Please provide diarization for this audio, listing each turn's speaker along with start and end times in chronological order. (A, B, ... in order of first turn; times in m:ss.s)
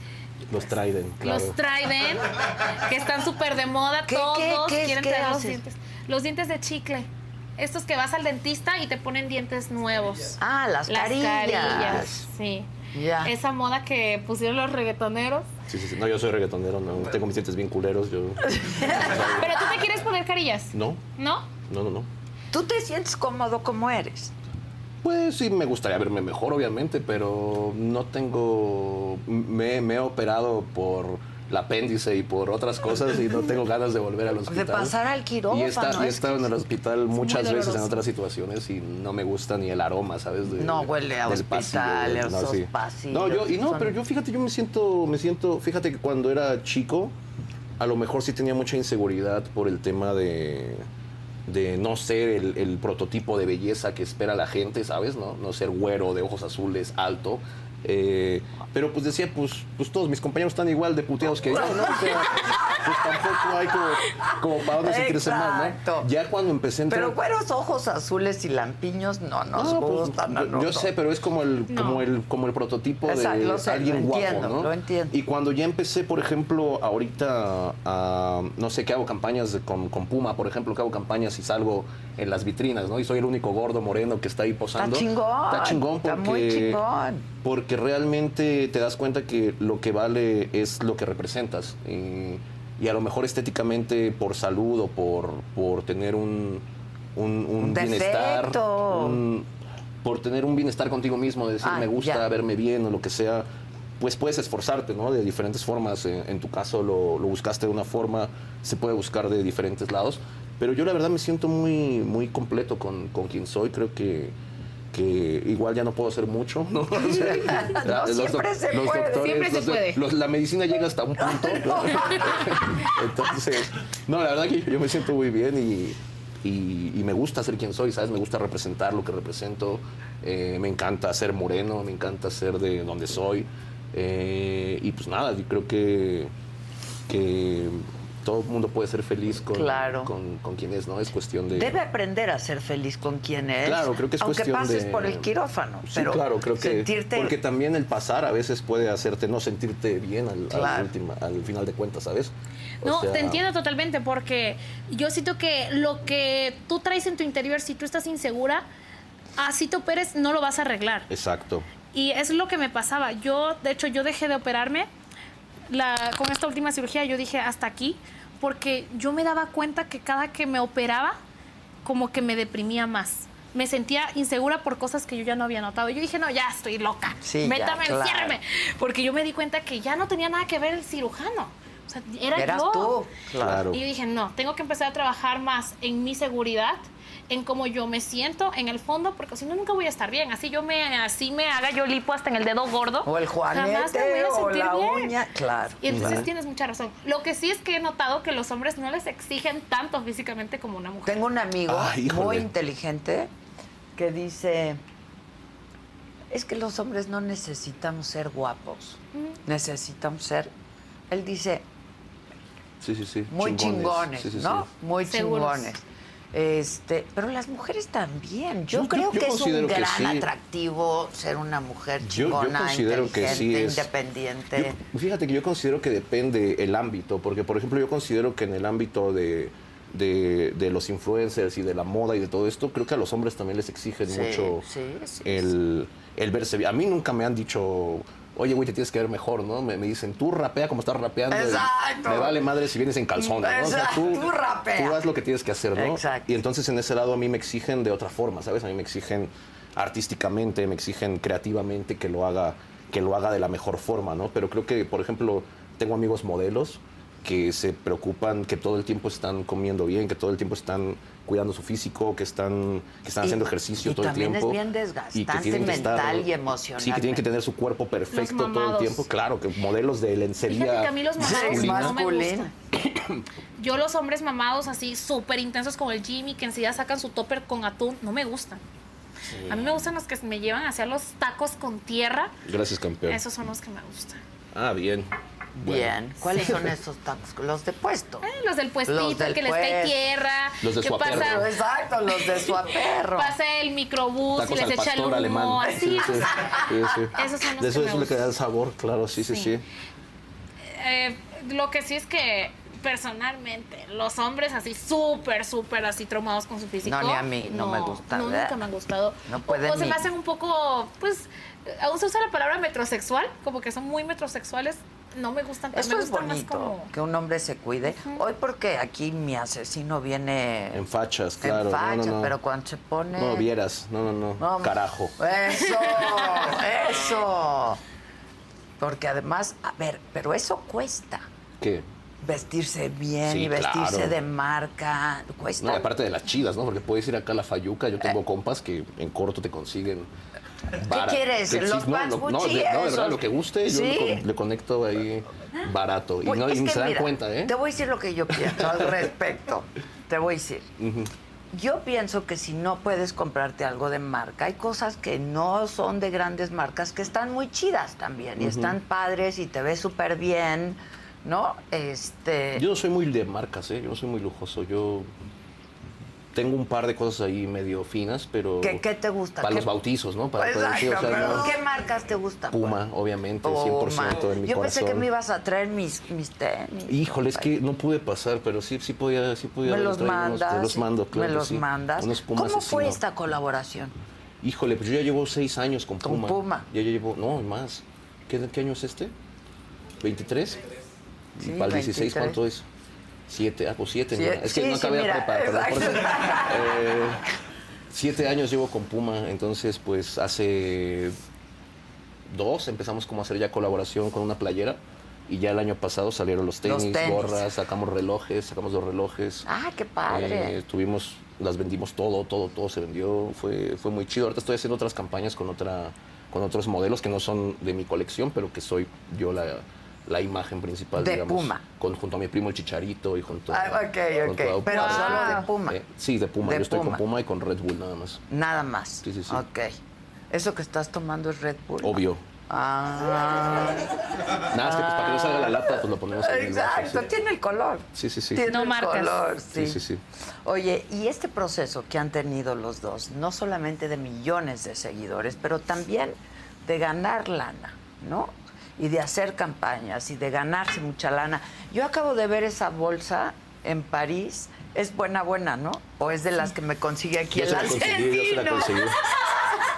0:00.5-0:01.6 A
0:01.2-0:12.7 B
0:04.1-0:05.6 C
0:10.4-0:12.3 C
0:12.9-0:13.3 C
0:13.2-0:15.5 B
0:15.7-0:19.8 A
0:18.5-0:19.4 C
0:19.4-0:21.5 B
0:20.7-0:21.0 A
0:21.7-0:22.1 A
0:22.5-0:24.3 C
0:25.0-0:34.9 A
0:34.5-0:36.5 C
0:35.5-0:47.2 A
0:37.2-0:38.0 B
0:40.5-0:44.0 C
0:47.8-0:50.9 A
0:51.5-1:07.2 A
1:01.4-1:06.1 C
1:06.9-1:10.9 C
1:09.5-1:26.8 A
1:11.7-1:12.0 B
1:13.0-1:15.2 C
1:24.8-1:27.3 C
1:27.4-1:39.5 A
1:37.6-1:39.2 C
1:40.0-1:43.5 A
1:41.6-1:42.3 C
1:44.0-1:54.4 A
1:54.9-2:16.3 A
1:56.9-1:59.4 C
1:59.1-2:00.0 B
2:01.2-2:02.6 C
2:17.1-2:21.7 A
2:19.5-2:20.1 C
2:21.5-2:27.4 C
2:23.6-2:25.3 A
2:25.9-2:33.4 A
2:30.5-2:30.9 C
2:32.8-2:38.6 B
2:39.4-2:41.1 B
2:41.1-2:41.7 A
2:41.9-2:44.9 B
2:45.7-2:51.2 B
2:51.8-3:03.0 B
2:57.2-2:58.4 C
3:02.3-3:03.6 C
3:03.4-3:03.8 A
3:03.7-3:15.2 B
3:13.0-3:16.3 C
3:15.8-3:21.2 B
3:15.9-3:16.3 A
3:21.1-3:23.3 C
3:21.7-3:22.5 A
3:24.0-3:24.8 C
3:26.3-3:30.5 C
3:31.1-3:31.6 C
3:32.8-3:34.7 A
3:33.3-3:44.8 C
3:35.0-3:35.7 B
3:38.7-3:40.3 A
3:42.0-3:43.9 A
3:44.6-3:54.6 A
3:54.1-3:55.5 C
3:55.2-4:24.6 A
4:01.3-4:02.4 C
4:03.2-4:05.0 C
4:05.8-4:06.3 C
4:23.2-4:27.2 C
4:25.1-4:26.3 A
4:26.8-4:32.0 A
4:28.1-4:29.1 B
4:30.4-4:32.5 B
4:31.2-4:32.5 C
4:32.8-4:33.2 A
4:33.6-4:38.6 B
4:39.3-4:39.7 A
4:39.5-4:42.3 B
4:42.5-4:43.2 A
4:43.1-4:44.2 B
4:44.5-4:46.5 A
4:45.6-4:48.3 C
4:48.2-4:51.5 B
4:48.9-4:50.0 C
4:50.6-4:51.5 A
4:51.1-4:53.4 C
4:53.1-4:56.5 B
4:54.3-4:59.6 A
4:57.1-4:58.3 B
4:59.2-4:59.6 B
5:00.7-5:16.9 B
5:06.8-5:08.6 C
5:09.3-5:10.0 C
5:15.7-5:20.8 C
5:17.9-5:18.2 B
5:20.7-5:22.3 A
5:21.4-5:23.5 C
5:23.2-5:25.2 A
5:24.4-5:27.8 C
5:28.8-5:31.2 C
5:31.6-5:31.8 A
5:32.2-5:35.9 C
5:33.2-5:34.2 A
5:35.6-5:40.1 A
5:40.8-5:47.6 A
5:40.9-5:44.2 C
5:46.2-5:50.7 C
5:48.4-5:48.9 A
5:50.8-5:51.1 A
5:51.5-6:02.6 C
5:58.4-5:58.8 A
6:02.6-6:05.1 A
6:06.3-6:08.8 A
6:08.6-6:09.7 C
6:09.4-6:11.5 A
6:10.4-6:12.8 C
6:12.5-6:15.0 A
6:13.4-6:17.5 C
6:16.9-6:23.0 A
6:19.6-6:23.9 C
6:24.4-6:29.1 A
6:26.0-6:26.7 C
6:30.0-6:30.7 A
6:31.4-6:32.4 C
6:31.4-6:32.7 A
6:33.3-6:37.2 A
6:34.1-6:36.8 C
6:37.9-6:41.2 A
6:42.3-6:49.5 A
6:46.6-6:47.5 C
6:49.5-6:50.6 C
6:50.1-7:08.2 A
7:01.0-7:01.6 C
7:03.5-7:05.8 C
7:04.7-7:05.5 B
7:06.4-7:07.0 C
7:08.3-7:09.7 C
7:09.0-7:09.4 A
7:10.3-7:19.8 C
7:11.8-7:12.2 A
7:14.5-7:17.1 A
7:18.0-7:18.4 A
7:18.5-7:19.2 B
7:19.5-7:20.0 A
7:20.4-7:39.6 C
7:37.3-7:39.0 A
7:37.7-7:38.9 B